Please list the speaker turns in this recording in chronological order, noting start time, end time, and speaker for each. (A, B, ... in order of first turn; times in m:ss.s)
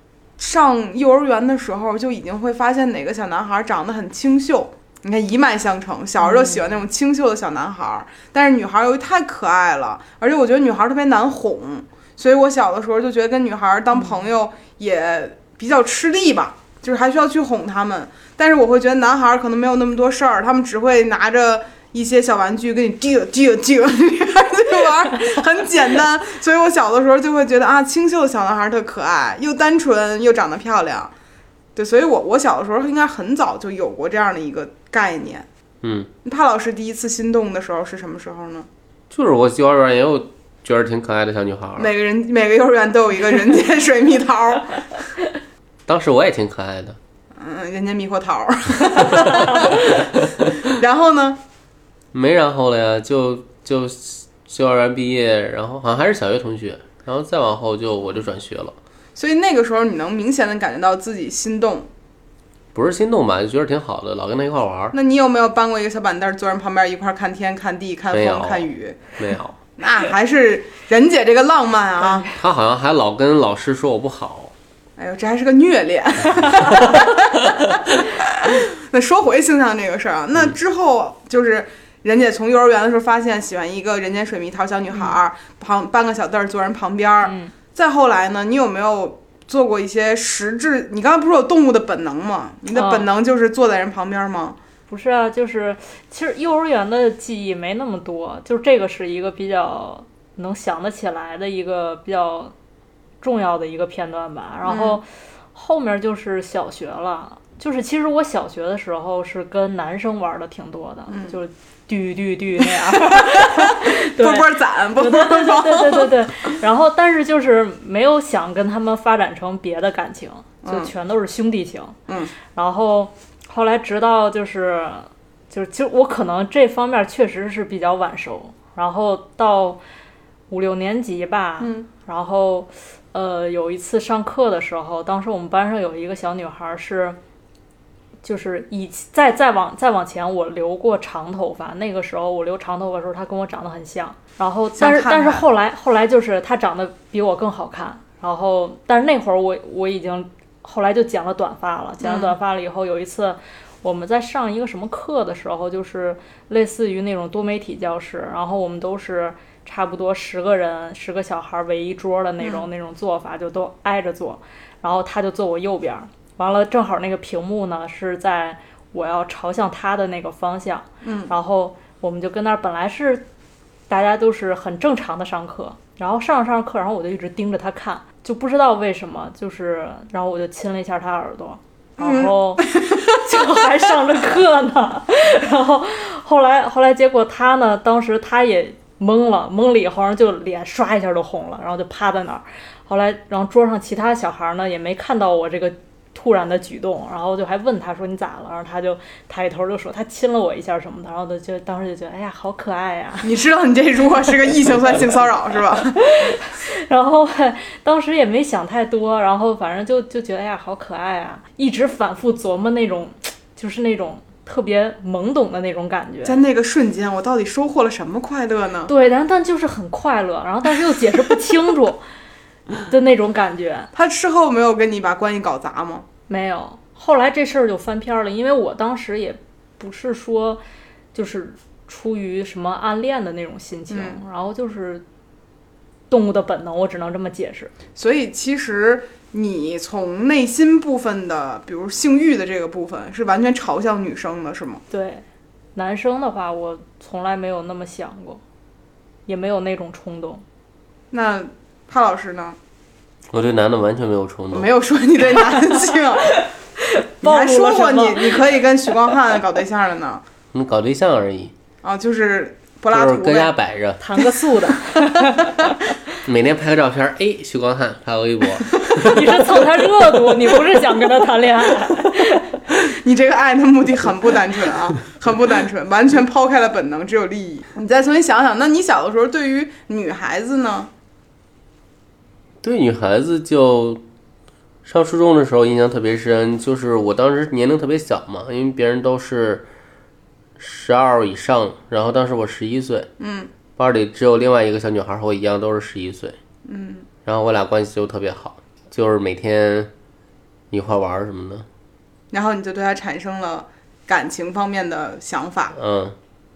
0:00.4-0:31.1 A
0:06.2-0:06.8 B
0:31.8-0:35.4 A
0:35.8-0:36.1 C
0:36.2-0:38.7 A
0:39.1-0:41.9 C
0:41.8-0:44.8 A
0:45.8-0:47.0 C
0:47.4-0:51.4 A
0:52.1-0:58.7 C
0:59.2-1:01.9 A
1:02.7-1:04.9 C
1:04.9-1:09.1 A
1:08.1-1:09.5 C
1:09.8-1:12.3 A
1:12.0-1:12.4 B
1:12.3-1:14.5 C
1:15.0-1:34.6 A
1:27.2-1:27.5 B
1:32.7-1:33.1 B
1:34.9-1:42.5 B
1:43.2-2:02.0 B
1:44.6-1:45.0 A
1:51.1-1:51.4 A
1:52.9-1:56.2 A
2:00.6-2:00.9 A
2:02.1-2:02.3 A
2:02.5-2:09.8 B
2:10.5-2:17.2 B
2:11.6-2:11.9 A
2:18.2-2:53.2 B
2:24.8-2:25.4 A
2:32.0-2:32.4 A
2:42.4-2:42.6 A
2:51.0-2:51.3 A
2:53.9-3:23.3 B
3:02.0-3:03.5 A
3:23.2-3:26.0 A
3:25.9-3:36.4 B
3:36.2-3:38.9 A
3:38.9-3:42.0 B
3:42.8-3:43.9 B
3:43.9-3:46.0 A
3:46.3-3:50.6 B
3:51.1-3:55.0 B
3:53.9-3:54.2 A
3:56.1-3:57.7 B
3:58.0-4:04.8 A
4:04.9-4:05.2 B
4:05.7-4:08.4 B
4:09.3-4:10.4 B
4:11.1-4:12.6 A
4:13.3-4:14.7 C
4:14.5-4:16.3 A
4:15.7-4:18.4 B
4:17.2-4:20.2 A
4:20.5-4:21.5 C
4:21.8-4:23.5 A
4:22.9-4:24.0 C
4:24.0-4:25.8 B
4:24.9-4:25.5 A
4:26.2-4:29.2 C
4:28.9-4:32.6 B
4:32.8-4:40.9 A
4:42.6-4:44.0 C
4:44.8-4:49.6 C
4:50.6-4:53.1 C
4:53.2-4:53.5 A
4:53.8-4:56.4 C
4:56.6-4:57.1 A
4:57.2-4:59.9 C
5:00.7-5:01.6 C
5:02.3-5:05.8 A
5:05.8-5:06.2 C